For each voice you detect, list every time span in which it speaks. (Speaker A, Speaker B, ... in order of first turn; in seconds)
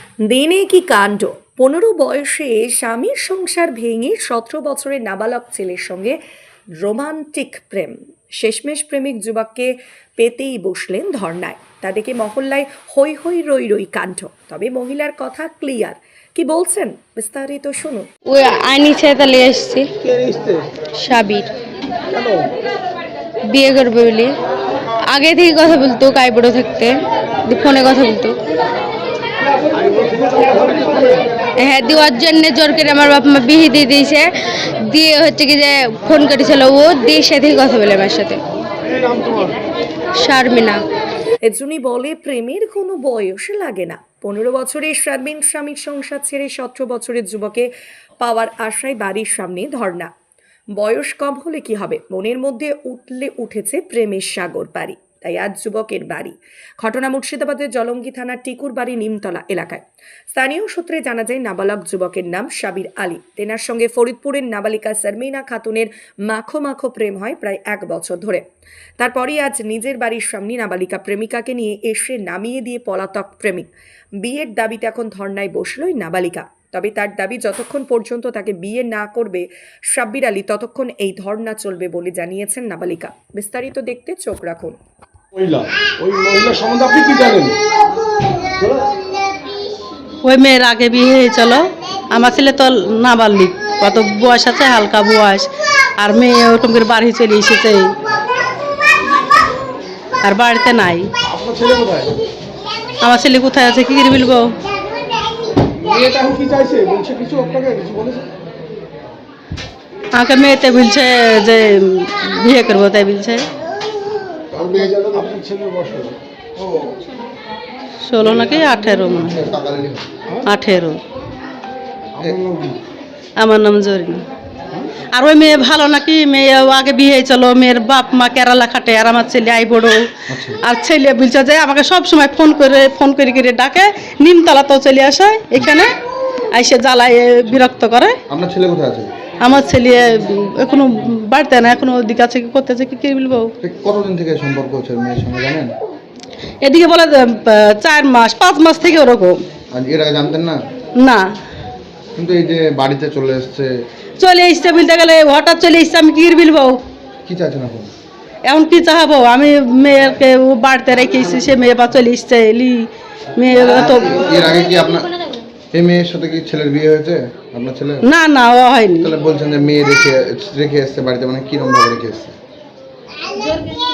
Speaker A: 0.3-6.2, 6.8-18.1, 41.4-47.7, 48.2-50.1, 50.8-68.4, 69.0-73.7, 74.2-84.7
Speaker B: 18.3-19.8, 21.1-21.5, 23.5-24.3, 25.1-26.9, 27.5-28.3, 31.6-34.2, 34.9-38.4, 40.2-40.8
Speaker C: 20.0-20.7, 22.1-22.5, 29.7-31.2, 38.9-39.6, 85.3-87.6, 101.2-102.2, 105.7-108.3, 114.5-116.2, 122.2-122.8
Speaker D: 90.2-97.9, 100.2-101.1, 103.0-104.5, 110.1-113.4, 118.0-119.4, 120.4-121.0, 123.4-124.2, 125.1-135.9, 136.5-138.2, 139.4-143.5, 146.6-149.4, 151.0-151.2, 154.2-156.8, 158.4-164.4, 168.1-169.1
Speaker E: 116.6-117.0, 119.1-120.1, 130.3-130.6, 138.3-139.1, 143.6-145.7, 149.7-150.6, 152.2-153.8, 157.3-157.9, 163.6-165.1, 165.7-168.1, 169.0-172.4